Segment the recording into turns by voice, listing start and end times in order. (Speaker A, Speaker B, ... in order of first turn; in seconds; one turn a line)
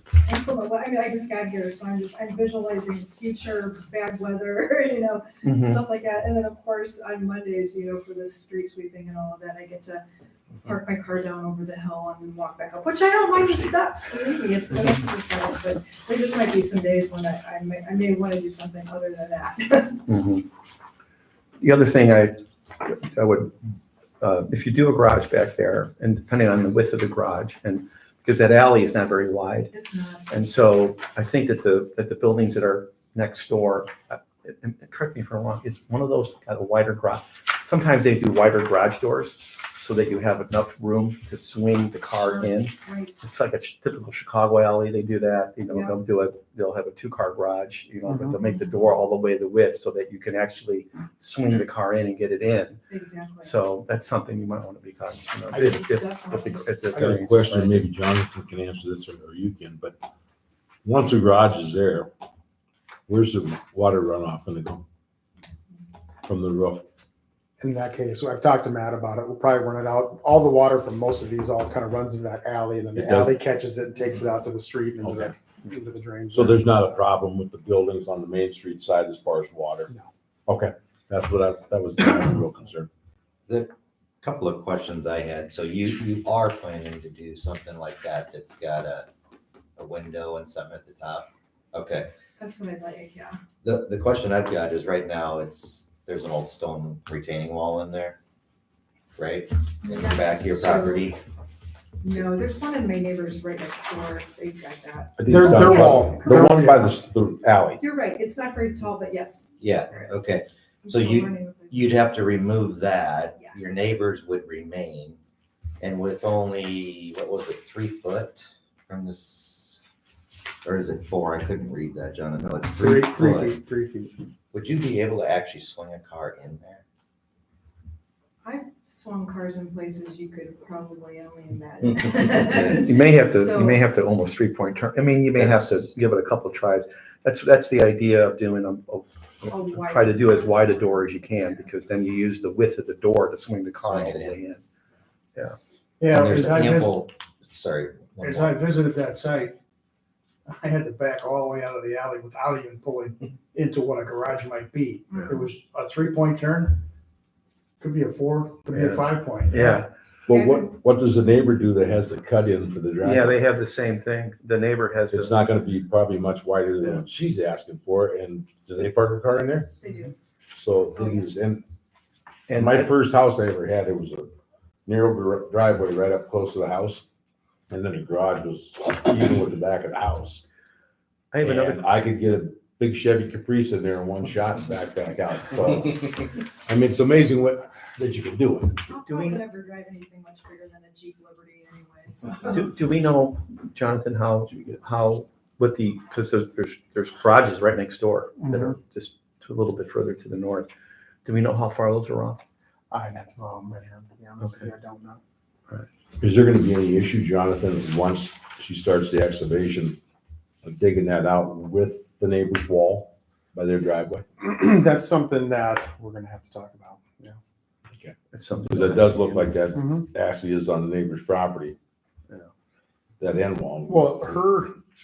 Speaker A: 0.2-10.0
Speaker B: 5.4-5.8
Speaker A: 10.6-20.1
Speaker B: 20.1-20.5
Speaker B: 21.6-29.7
Speaker A: 29.7-30.6
Speaker B: 30.3-52.8
Speaker A: 42.1-43.2
Speaker A: 45.7-46.0
Speaker C: 48.1-48.4
Speaker A: 52.9-53.5
Speaker B: 53.4-57.8
Speaker D: 55.5-55.9
Speaker A: 55.5-56.8
Speaker D: 56.9-60.0
Speaker D: 60.9-62.1
Speaker D: 63.1-64.8
Speaker D: 66.2-66.8
Speaker C: 67.6-76.6
Speaker D: 73.0-73.3
Speaker D: 75.0-75.3
Speaker D: 76.3-79.9
Speaker D: 80.5-82.9
Speaker E: 83.5-89.1
Speaker E: 89.8-92.1
Speaker A: 92.4-93.4
Speaker E: 93.6-98.2
Speaker E: 99.2-101.2
Speaker A: 99.8-101.1
Speaker A: 102.0-106.7
Speaker D: 105.2-107.8
Speaker C: 105.3-106.9
Speaker A: 107.8-112.3
Speaker E: 109.6-115.2
Speaker E: 115.8-119.8
Speaker E: 120.6-123.6
Speaker C: 122.8-124.2
Speaker E: 124.5-126.8
Speaker A: 128.4-133.8
Speaker E: 132.4-132.8
Speaker B: 132.6-144.6
Speaker E: 135.3-135.9
Speaker A: 139.4-141.7
Speaker E: 143.8-144.4
Speaker F: 146.0-146.9
Speaker E: 146.1-148.7
Speaker F: 148.2-149.5
Speaker F: 150.7-152.9
Speaker F: 153.6-156.8
Speaker F: 157.8-159.7
Speaker C: 158.6-159.0
Speaker B: 158.7-159.9
Speaker D: 160.3-163.4
Speaker A: 160.3-160.8
Speaker B: 163.0-165.4
Speaker D: 165.1-169.8
Speaker A: 169.8-170.1
Speaker D: 170.5-171.6
Speaker A: 171.0-171.3
Speaker B: 172.5-172.9
Speaker D: 172.5-174.3
Speaker D: 174.9-177.1
Speaker D: 177.7-180.4
Speaker B: 181.3-181.8
Speaker D: 181.4-188.8
Speaker A: 188.9-192.7
Speaker B: 189.1-189.4
Speaker B: 192.5-200.7
Speaker C: 198.4-198.8
Speaker B: 201.2-202.4
Speaker C: 202.9-205.2
Speaker D: 206.2-210.0
Speaker D: 210.6-214.2
Speaker C: 214.4-217.4
Speaker B: 218.3-219.5
Speaker D: 218.7-221.8
Speaker C: 219.7-220.1
Speaker D: 223.2-224.3
Speaker C: 223.9-224.8